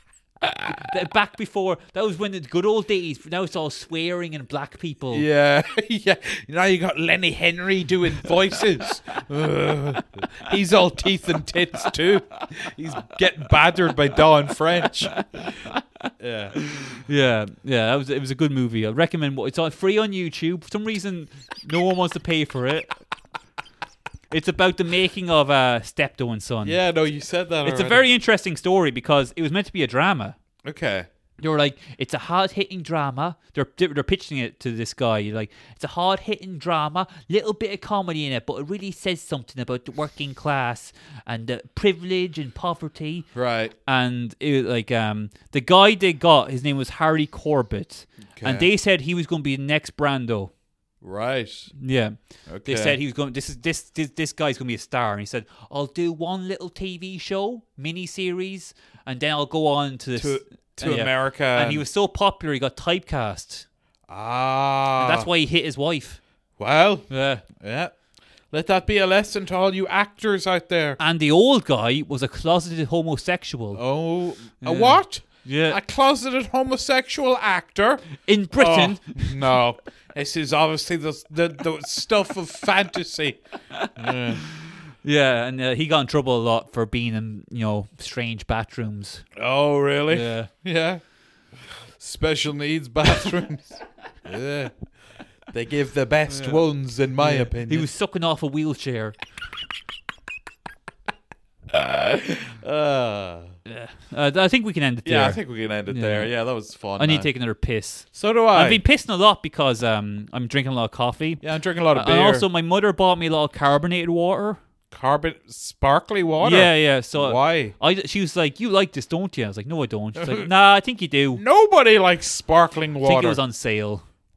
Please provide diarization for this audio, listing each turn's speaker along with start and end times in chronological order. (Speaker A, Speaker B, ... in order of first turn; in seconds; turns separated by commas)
Speaker A: 0.7-5.2, Speaker B: 5.1-15.2, Speaker A: 15.1-15.8, Speaker B: 16.2-16.6, Speaker A: 16.9-22.9, Speaker A: 24.3-26.8, Speaker B: 26.6-28.0, Speaker A: 27.6-30.4, Speaker B: 30.6-31.1, Speaker A: 31.4-43.3, Speaker B: 43.3-43.7, Speaker A: 43.9-50.5, Speaker B: 48.4-48.7, Speaker B: 51.0-51.7, Speaker A: 51.8-63.6, Speaker B: 52.5-53.0, Speaker B: 60.2-61.8, Speaker B: 64.1-65.3, Speaker A: 65.0-66.2, Speaker B: 66.6-67.9, Speaker A: 67.1-67.4, Speaker B: 68.5-71.0, Speaker A: 71.0-73.8, Speaker B: 73.7-83.4, Speaker A: 74.6-75.8, Speaker A: 78.2-79.2, Speaker B: 83.9-84.4, Speaker A: 85.0-89.2, Speaker B: 89.3-91.0, Speaker A: 90.1-90.5, Speaker B: 92.0-94.7, Speaker B: 95.5-97.9, Speaker A: 96.3-96.6, Speaker A: 97.2-99.2, Speaker B: 101.7-103.5, Speaker A: 103.7-106.3, Speaker B: 105.0-107.3, Speaker A: 107.0-114.6, Speaker B: 108.1-108.8, Speaker B: 111.4-112.5, Speaker B: 114.9-117.7, Speaker A: 116.4-121.4, Speaker B: 120.2-120.5, Speaker B: 121.3-123.4, Speaker A: 123.0-124.0